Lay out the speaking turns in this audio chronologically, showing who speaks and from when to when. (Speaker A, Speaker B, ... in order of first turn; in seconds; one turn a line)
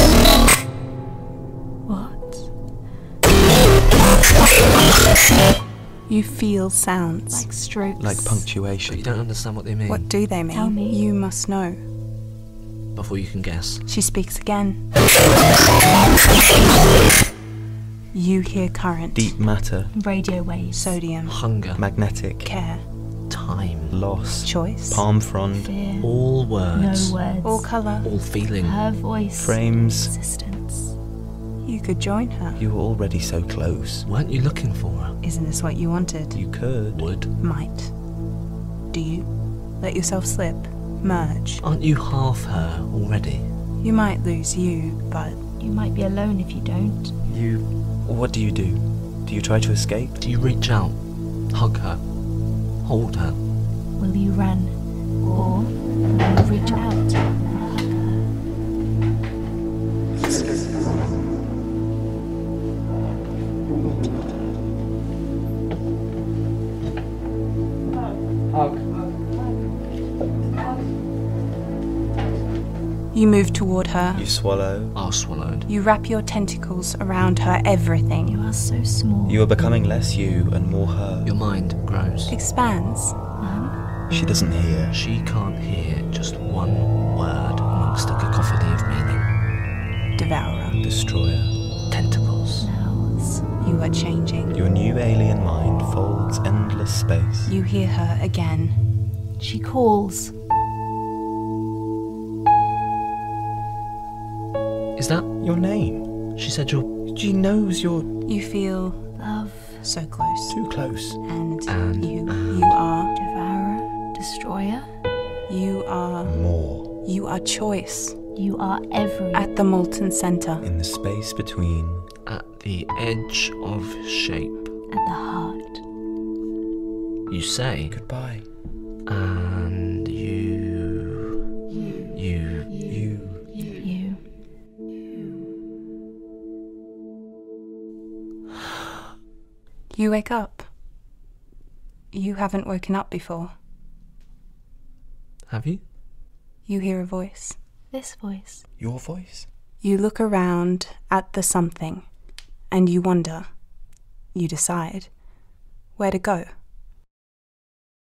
Speaker A: 1.9-2.5
Speaker B: 6.1-7.5
Speaker A: 7.3-8.7
Speaker C: 8.0-9.1
Speaker D: 8.7-10.4
Speaker B: 9.9-11.8
Speaker A: 10.5-11.0
Speaker D: 12.9-13.9
Speaker B: 13.9-14.9
Speaker B: 18.1-19.3
Speaker C: 19.1-19.9
Speaker A: 19.9-21.1
Speaker B: 20.7-21.4
Speaker D: 21.2-21.9
Speaker C: 21.5-22.5
Speaker B: 22.4-22.9
Speaker D: 23.3-24.2
Speaker C: 23.9-25.7
Speaker B: 24.5-25.1
Speaker A: 25.3-30.9
Speaker D: 26.0-27.2
Speaker B: 27.4-28.1
Speaker D: 28.0-28.9
Speaker C: 29.3-30.1
Speaker B: 31.6-32.6
Speaker C: 32.6-34.1
Speaker D: 34.0-35.2
Speaker B: 35.2-36.7
Speaker C: 36.3-37.2
Speaker D: 36.8-37.4
Speaker B: 37.4-38.0
Speaker B: 38.9-41.6
Speaker D: 41.6-43.5
Speaker B: 43.8-45.4
Speaker A: 45.6-47.1
Speaker C: 47.3-50.2
Speaker D: 50.2-53.4
Speaker A: 54.0-58.2
Speaker B: 73.1-74.2
Speaker C: 74.2-75.0
Speaker D: 75.0-75.7
Speaker B: 75.7-78.4
Speaker A: 78.3-79.5
Speaker C: 79.3-81.3
Speaker D: 81.2-82.3
Speaker B: 82.3-83.2
Speaker A: 83.4-83.8
Speaker C: 84.1-85.0
Speaker D: 84.9-89.3
Speaker B: 90.2-90.8
Speaker C: 90.8-91.5
Speaker D: 91.9-92.7
Speaker A: 92.6-93.5
Speaker B: 93.6-94.6
Speaker C: 94.5-97.5
Speaker B: 97.5-98.8
Speaker A: 99.4-100.3
Speaker D: 105.0-105.3
Speaker C: 105.4-106.3
Speaker D: 106.3-107.0
Speaker C: 107.1-108.1
Speaker B: 108.3-109.0
Speaker A: 109.2-109.9
Speaker B: 109.8-110.5
Speaker C: 110.5-111.2
Speaker B: 111.2-113.1
Speaker D: 111.7-112.8
Speaker A: 113.2-114.9
Speaker B: 115.5-116.3
Speaker C: 116.2-117.0
Speaker B: 117.0-118.2
Speaker A: 118.3-119.5
Speaker B: 119.3-120.6
Speaker C: 120.6-122.0
Speaker D: 122.3-124.7
Speaker A: 124.9-125.8
Speaker D: 127.3-128.0
Speaker C: 127.9-128.6
Speaker D: 129.0-131.2
Speaker A: 131.7-132.1
Speaker D: 132.1-132.7
Speaker A: 132.7-134.2
Speaker C: 132.9-133.5
Speaker B: 139.9-140.7
Speaker B: 142.1-143.5
Speaker D: 145.5-145.8
Speaker B: 146.7-147.6
Speaker A: 147.9-148.7
Speaker C: 148.8-149.5
Speaker B: 149.8-152.1
Speaker B: 152.7-153.5
Speaker B: 154.3-155.2
Speaker B: 156.0-156.5